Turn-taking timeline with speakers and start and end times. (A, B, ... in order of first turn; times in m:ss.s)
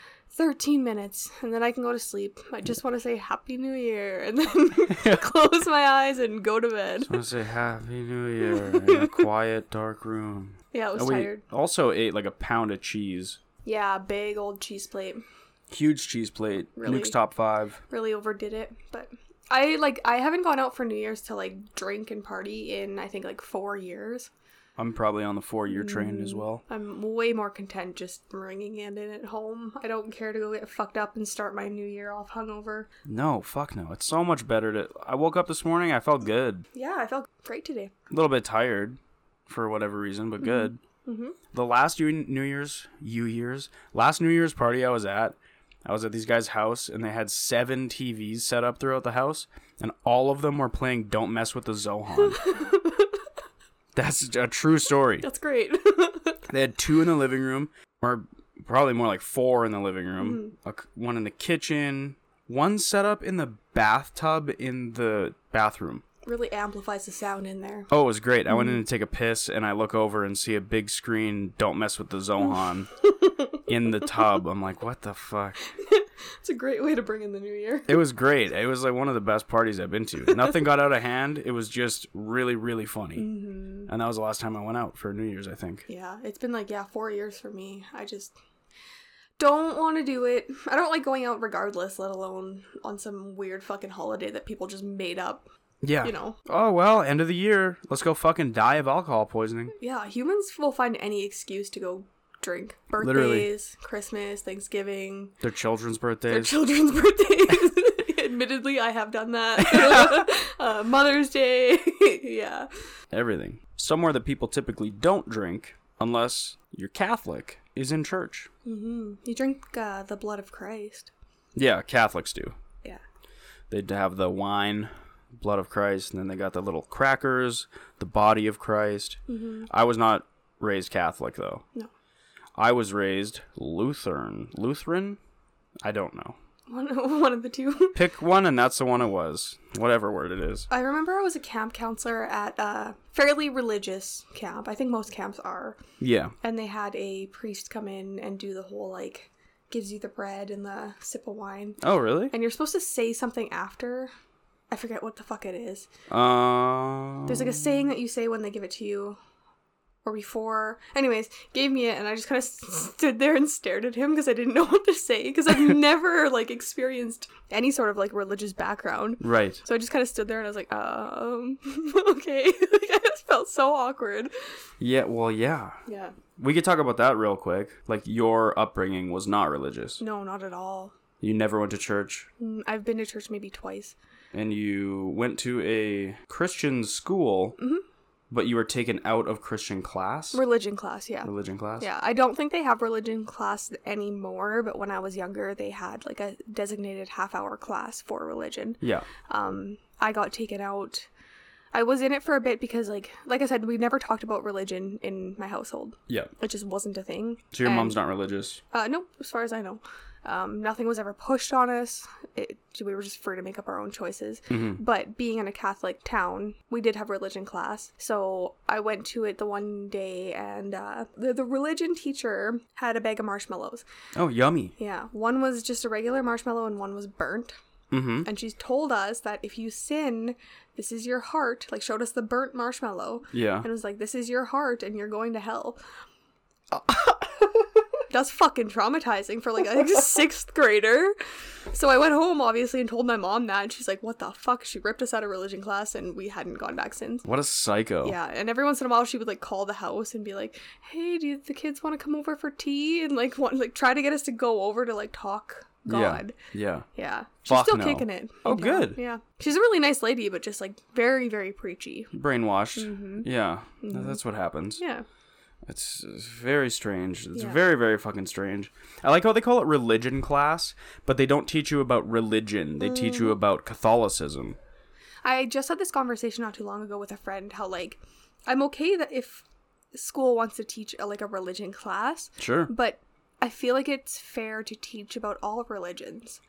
0:00.3-0:07.2 A
0:04.9-0:05.2 B
0:07.1-0:13.4 B
0:08.4-0:09.2 A
0:10.7-0:11.4 A
0:13.6-0:15.2 A
0:15.7-0:17.8 B
0:16.8-0:17.2 A
0:17.9-0:24.3 A
0:24.8-0:26.6 B
0:25.7-0:32.9 A
0:33.0-0:36.7 B
0:36.7-0:37.9 A
0:38.1-0:40.8 B
0:40.4-0:41.4 A
0:41.5-0:52.4 B
0:52.3-0:53.1 A
0:54.0-0:55.2 B
0:55.2-0:56.4 A
0:56.5-1:06.0 B
1:00.2-1:00.5 A
1:06.2-1:07.9 A
1:07.9-1:12.9 B
1:13.7-1:15.6 B
1:15.8-1:18.0 A
1:17.9-1:23.3 B
1:23.2-1:23.9 A
1:23.9-1:25.9 B
1:25.9-1:28.4 A
1:29.4-1:35.4 A
1:35.8-1:39.8 B
1:36.0-1:36.4 A
1:39.8-1:45.4 A
1:43.0-1:43.5 B
1:45.4-1:46.6 B
1:46.3-1:52.7 A
1:49.6-1:50.3 B
1:53.1-1:58.5 B
1:58.6-2:01.1 A
2:01.6-2:02.6 B
2:03.7-2:11.6 B
2:09.3-2:09.7 A
2:12.6-2:15.2 B
2:15.8-2:16.4 B
2:16.7-2:18.0 A
2:18.0-2:20.7 B
2:20.7-2:25.8 A
2:26.0-2:26.3 B
2:26.4-2:34.1 A
2:31.8-2:32.3 B
2:34.7-2:35.9 A
2:36.1-2:37.8 B
2:37.3-2:39.2 A
2:40.0-2:54.3 A
2:49.2-2:49.6 B
2:54.8-2:55.8 B
2:55.9-2:56.2 A
2:56.4-3:00.0 B
3:00.0-3:00.9 A
3:01.2-3:02.3 B
3:02.4-3:04.0 A
3:04.3-3:07.6 B
3:07.6-3:07.8 A
3:08.3-3:10.4 B
3:10.3-3:21.1 A
3:11.2-3:11.9 B
3:18.8-3:19.1 B
3:21.7-3:28.0 A
3:27.5-3:28.6 B
3:28.7-3:43.8 A
3:34.5-3:34.8 B
3:44.2-3:44.7 B
3:44.8-3:47.5 A
3:47.9-3:48.3 B
3:48.2-3:55.8 A
3:53.3-3:53.7 B
3:56.7-3:57.2 B
3:58.1-4:01.2 A
4:01.7-4:07.3 A
4:07.2-4:08.2 B
4:08.0-4:16.4 A
4:15.9-4:16.9 B
4:17.0-4:22.1 A
4:17.5-4:19.0 B
4:22.1-4:24.8 B
4:22.8-4:23.3 A
4:23.8-4:24.2 A
4:24.8-4:25.0 A
4:25.6-4:34.6 B
4:27.3-4:27.6 A
4:32.8-4:33.4 A
4:35.2-4:46.4 A
4:42.4-4:42.7 B